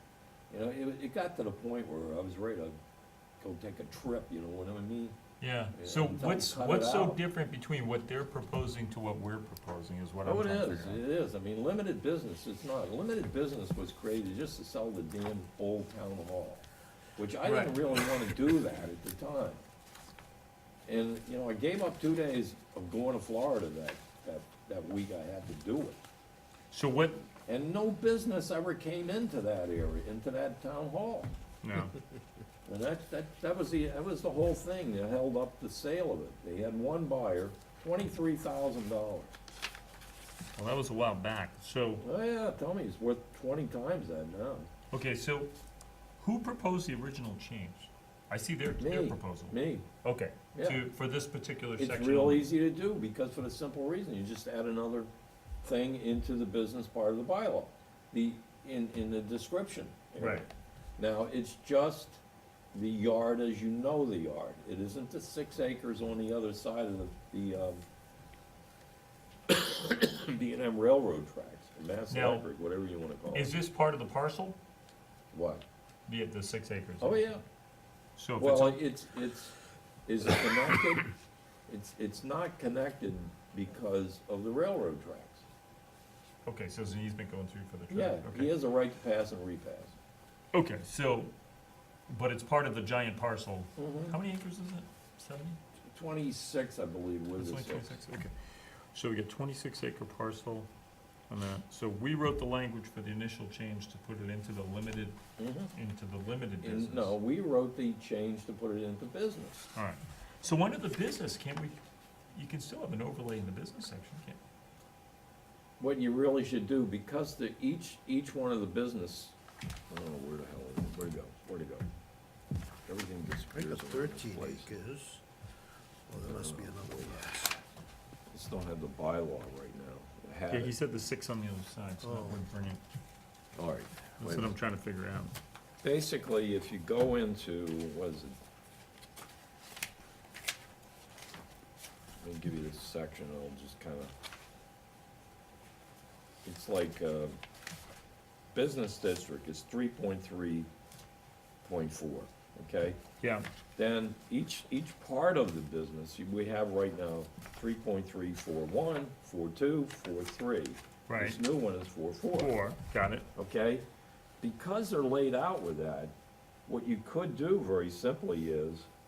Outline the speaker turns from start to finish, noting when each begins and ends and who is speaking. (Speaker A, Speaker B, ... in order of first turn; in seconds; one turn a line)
Speaker A: 0.5-2.8
Speaker A: 3.4-5.2
Speaker B: 5.4-11.0
Speaker A: 5.7-7.2
Speaker A: 10.2-16.6
Speaker A: 17.2-19.6
Speaker B: 17.4-17.8
Speaker A: 20.9-26.0
Speaker B: 26.7-27.3
Speaker A: 27.5-31.3
Speaker B: 31.6-32.0
Speaker A: 32.6-39.4
Speaker B: 40.6-42.0
Speaker A: 42.0-44.7
Speaker B: 44.9-45.5
Speaker B: 46.2-52.5
Speaker A: 48.8-49.9
Speaker A: 50.5-50.8
Speaker A: 51.8-55.1
Speaker A: 55.6-60.5
Speaker B: 60.2-60.5
Speaker A: 61.0-62.2
Speaker A: 62.7-67.8
Speaker A: 69.5-73.5
Speaker B: 72.1-72.5
Speaker B: 73.3-74.6
Speaker A: 75.3-75.6
Speaker B: 76.1-77.3
Speaker A: 77.0-77.4
Speaker B: 78.2-78.8
Speaker A: 78.4-79.5
Speaker A: 80.1-81.1
Speaker A: 81.7-85.5
Speaker B: 86.5-88.5
Speaker A: 87.9-90.0
Speaker B: 90.5-91.3
Speaker B: 92.1-95.6
Speaker A: 93.8-94.2
Speaker A: 95.8-98.0
Speaker B: 97.4-98.3
Speaker B: 98.9-100.7
Speaker B: 101.3-105.2
Speaker A: 105.4-105.7
Speaker B: 105.7-107.1
Speaker A: 106.6-109.7
Speaker B: 109.8-111.8
Speaker B: 112.3-114.4
Speaker A: 115.8-119.4
Speaker A: 119.9-121.9
Speaker A: 122.9-124.8
Speaker C: 123.5-125.2
Speaker C: 126.1-127.6
Speaker A: 126.2-127.3
Speaker A: 128.3-130.8
Speaker B: 130.5-132.8
Speaker C: 132.0-132.4
Speaker A: 133.6-134.5
Speaker B: 134.2-135.3
Speaker A: 135.8-138.3
Speaker A: 142.2-144.1
Speaker A: 146.4-147.4
Speaker A: 148.5-150.7
Speaker A: 151.6-153.0
Speaker B: 153.2-153.5
Speaker A: 153.8-162.6
Speaker B: 161.1-161.4
Speaker B: 162.3-163.3
Speaker A: 163.3-163.8
Speaker A: 164.4-166.1
Speaker A: 166.7-168.9